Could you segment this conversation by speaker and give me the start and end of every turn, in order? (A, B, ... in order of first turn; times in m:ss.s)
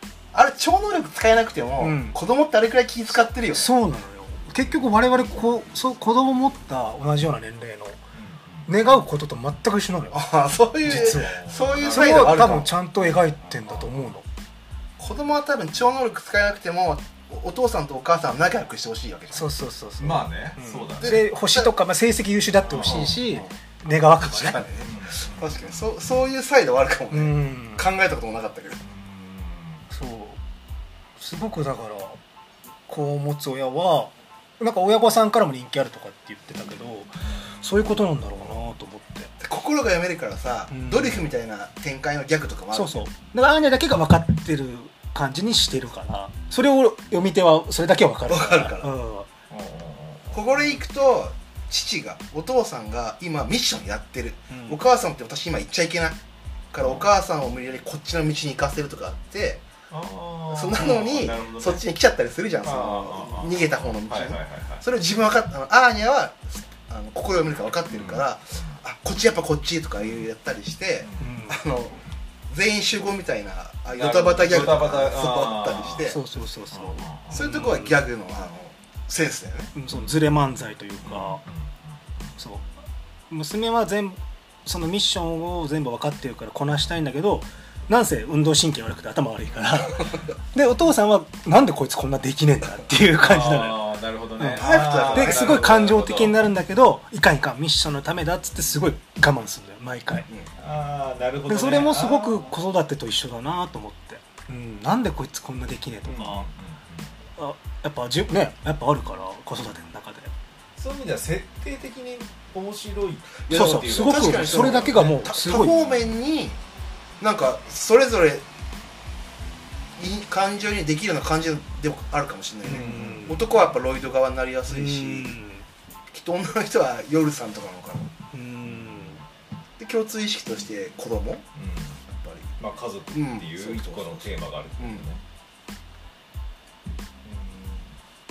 0:00.3-0:03.7 A
0:01.8-0:02.2 B
0:03.5-0:08.0 B
0:08.1-0:08.7 C
0:08.7-0:10.3 B
0:10.1-0:12.7 A
0:10.8-0:14.2 B
0:10.8-0:14.1 C
0:15.0-0:19.5 A
0:19.3-0:24.6 B
0:20.0-0:21.3 C
0:21.0-0:21.7 A
0:22.6-0:23.5 C
0:22.7-0:23.4 A
0:24.2-0:28.8 A
0:24.8-0:26.2 C
0:27.1-0:27.9 B
0:28.8-0:29.8 C
0:29.9-0:30.4 B
0:31.2-0:32.2 B
0:32.9-0:39.3 B
0:39.4-0:43.1 A
0:40.7-0:41.3 B
0:42.7-0:49.3 B
0:48.3-0:48.9 A
0:49.5-0:50.8 C
0:50.3-0:56.2 A
0:54.5-0:54.8 B
0:56.7-0:59.6 A
0:56.8-0:57.1 C
0:59.9-1:01.8 C
1:00.5-1:12.0 A
1:02.6-1:04.8 C
1:07.8-1:08.8 C
1:10.0-1:10.3 C
1:11.0-1:11.3 C
1:11.2-1:11.6 B
1:12.5-1:16.2 A
1:13.9-1:16.2 C
1:16.0-1:17.9 B
1:16.7-1:17.9 C
1:17.3-1:19.7 A
1:19.7-1:21.4 B
1:21.0-1:22.3 C
1:22.4-1:22.7 B
1:23.3-1:33.8 B
1:33.2-1:36.4 C
1:34.4-1:40.3 B
1:34.6-1:35.7 A
1:40.6-1:42.5 C
1:41.5-1:46.5 B
1:46.1-1:47.1 C
1:47.4-1:50.3 B
1:50.8-1:56.1 C
1:53.5-1:56.6 A
1:53.5-1:55.7 B
1:57.2-1:58.4 A
2:00.0-2:05.4 A
2:02.6-2:03.5 C
2:02.6-2:03.5 B
2:04.7-2:05.6 B
2:06.1-2:08.1 A
2:08.3-2:09.2 B
2:08.6-2:09.2 C
2:09.8-2:11.4 A
2:11.5-2:12.0 C
2:12.1-2:12.5 A
2:12.6-2:15.2 C
2:13.1-2:15.0 A
2:17.2-2:17.9 C